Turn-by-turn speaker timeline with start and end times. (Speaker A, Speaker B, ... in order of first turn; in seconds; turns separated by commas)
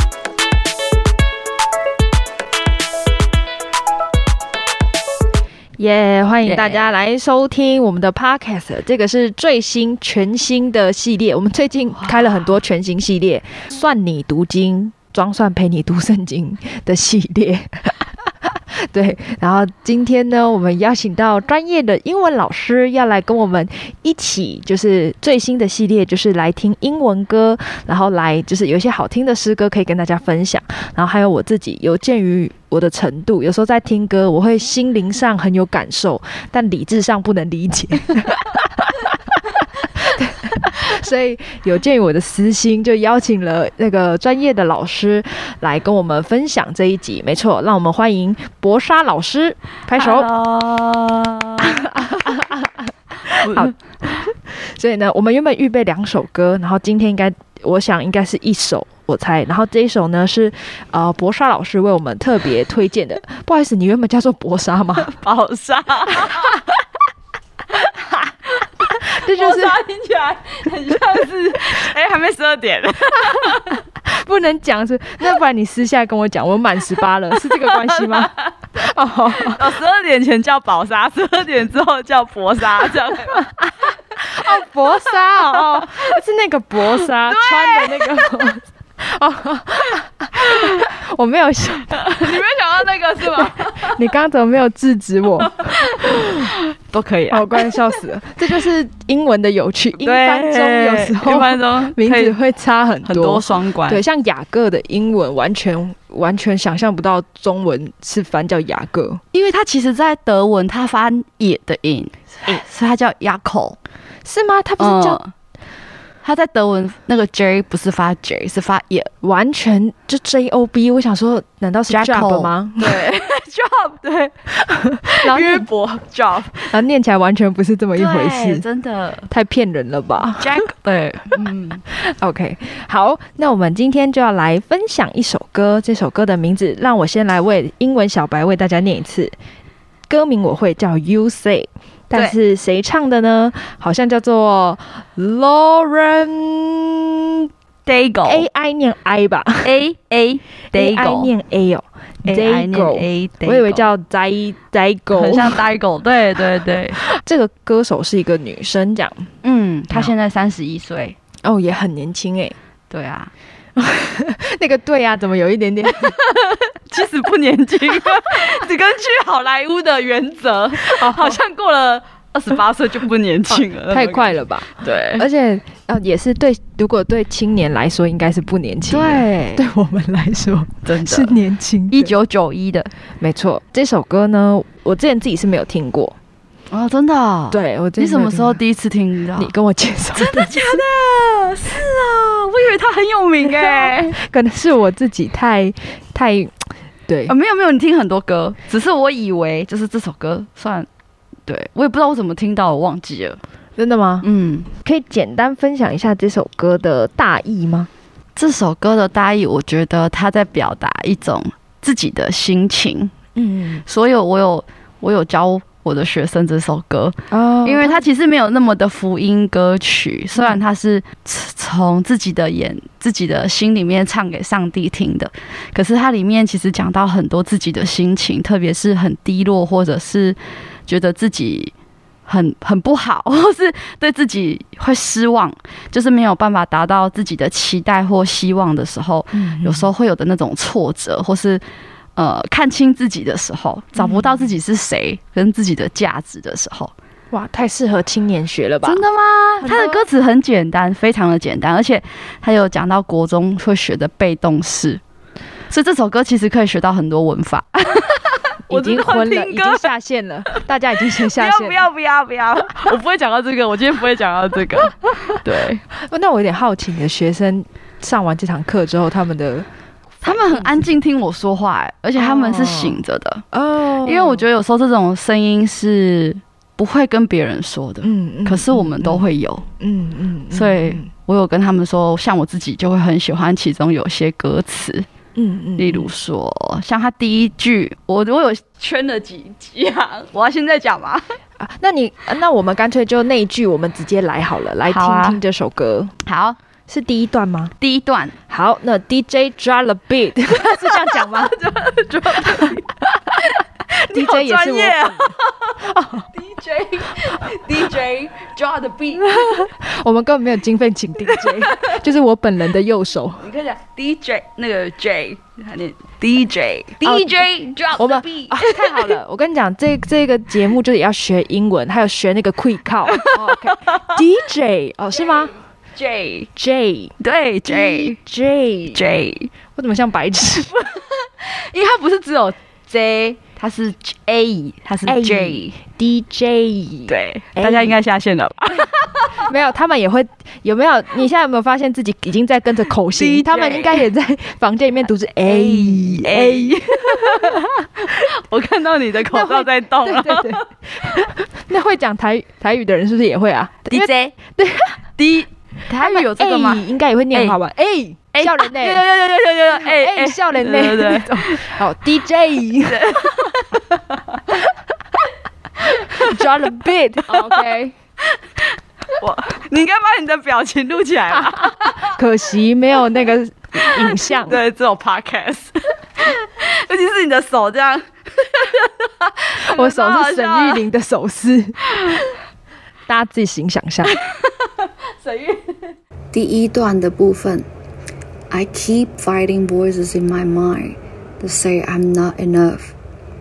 Speaker A: 5.8-50.3, Speaker B: 6.4-6.8, Speaker B: 12.0-12.5, Speaker B: 50.0-52.4, Speaker A: 51.6-65.1, Speaker B: 53.3-53.7, Speaker B: 65.0-66.7, Speaker B: 68.5-73.8, Speaker A: 68.9-69.8, Speaker A: 73.2-79.7, Speaker B: 77.4-78.7, Speaker B: 79.3-83.5, Speaker A: 83.3-92.3, Speaker B: 84.4-86.0, Speaker B: 86.8-88.3, Speaker B: 90.4-90.9, Speaker B: 92.0-94.1, Speaker A: 93.3-96.5, Speaker B: 95.4-97.8, Speaker A: 97.3-109.2, Speaker B: 100.0-102.3, Speaker B: 103.0-104.0, Speaker B: 109.3-113.8, Speaker A: 114.2-115.2, Speaker B: 114.8-115.3, Speaker B: 116.2-119.1, Speaker A: 119.2-123.0, Speaker B: 121.9-124.5, Speaker A: 124.7-125.7, Speaker B: 125.0-126.7, Speaker A: 126.7-128.6, Speaker B: 128.0-129.3, Speaker A: 129.3-130.6, Speaker B: 130.3-131.8, Speaker A: 131.9-139.3, Speaker A: 140.1-147.2, Speaker B: 147.8-148.5, Speaker A: 148.2-149.7, Speaker B: 149.6-151.3, Speaker A: 150.7-155.6, Speaker B: 152.2-153.9, Speaker B: 155.1-157.0, Speaker A: 156.9-159.3, Speaker B: 159.4-161.2, Speaker A: 161.4-162.5, Speaker B: 162.9-163.3, Speaker A: 163.8-166.2, Speaker B: 165.9-175.2, Speaker A: 170.8-171.4, Speaker A: 173.5-182.1, Speaker B: 178.9-179.6, Speaker B: 180.8-181.4, Speaker B: 181.9-182.9, Speaker A: 183.2-186.2, Speaker B: 186.7-189.5, Speaker A: 187.5-188.6, Speaker A: 189.4-190.8, Speaker B: 190.1-194.2, Speaker A: 193.6-197.3, Speaker B: 197.3-200.9, Speaker B: 201.5-203.4, Speaker A: 203.8-204.3, Speaker B: 204.2-204.7, Speaker A: 204.8-207.9, Speaker B: 208.3-213.1, Speaker A: 213.3-213.8, Speaker B: 213.8-231.7, Speaker A: 217.3-218.0, Speaker B: 232.3-241.6, Speaker A: 239.3-239.9, Speaker B: 242.2-246.9, Speaker A: 244.0-244.5, Speaker A: 247.3-249.0, Speaker B: 248.8-255.0, Speaker A: 249.6-250.0, Speaker B: 255.7-259.9, Speaker A: 258.7-261.9, Speaker B: 261.1-265.8, Speaker A: 265.9-269.7, Speaker A: 270.2-270.9, Speaker B: 270.2-273.4, Speaker A: 272.2-273.0, Speaker A: 273.5-274.4, Speaker B: 274.0-279.6, Speaker A: 278.0-279.2, Speaker A: 279.8-281.1, Speaker B: 280.5-285.1, Speaker A: 285.4-286.1, Speaker B: 285.8-291.2, Speaker A: 291.6-296.1, Speaker B: 294.9-295.4, Speaker B: 296.2-296.6, Speaker A: 296.9-297.7, Speaker B: 297.8-298.3, Speaker A: 298.5-301.5, Speaker B: 300.6-309.6, Speaker A: 304.1-306.3, Speaker A: 309.2-313.5, Speaker B: 311.2-311.9, Speaker B: 313.4-319.2, Speaker A: 317.0-317.4, Speaker A: 317.9-325.5, Speaker B: 323.1-324.2, Speaker B: 325.9-326.5, Speaker A: 326.6-327.1, Speaker B: 327.2-328.2, Speaker A: 327.6-329.0, Speaker B: 328.9-329.5, Speaker A: 329.8-330.7, Speaker B: 330.7-335.8, Speaker A: 335.1-337.9, Speaker B: 337.1-339.4, Speaker A: 338.7-347.7, Speaker B: 343.1-344.1, Speaker B: 345.4-351.2, Speaker A: 349.2-355.0, Speaker B: 353.9-354.3, Speaker B: 355.2-357.6, Speaker A: 356.0-359.0, Speaker B: 358.3-361.8, Speaker A: 359.8-363.4, Speaker B: 362.8-364.6, Speaker B: 365.8-366.6, Speaker A: 366.1-367.9, Speaker B: 367.3-367.7, Speaker B: 368.2-372.1, Speaker A: 371.3-374.6, Speaker B: 373.8-380.8, Speaker A: 379.6-381.9, Speaker B: 381.9-382.2, Speaker A: 383.1-384.2, Speaker B: 384.0-385.9, Speaker C: 386.3-387.7, Speaker C: 388.5-392.9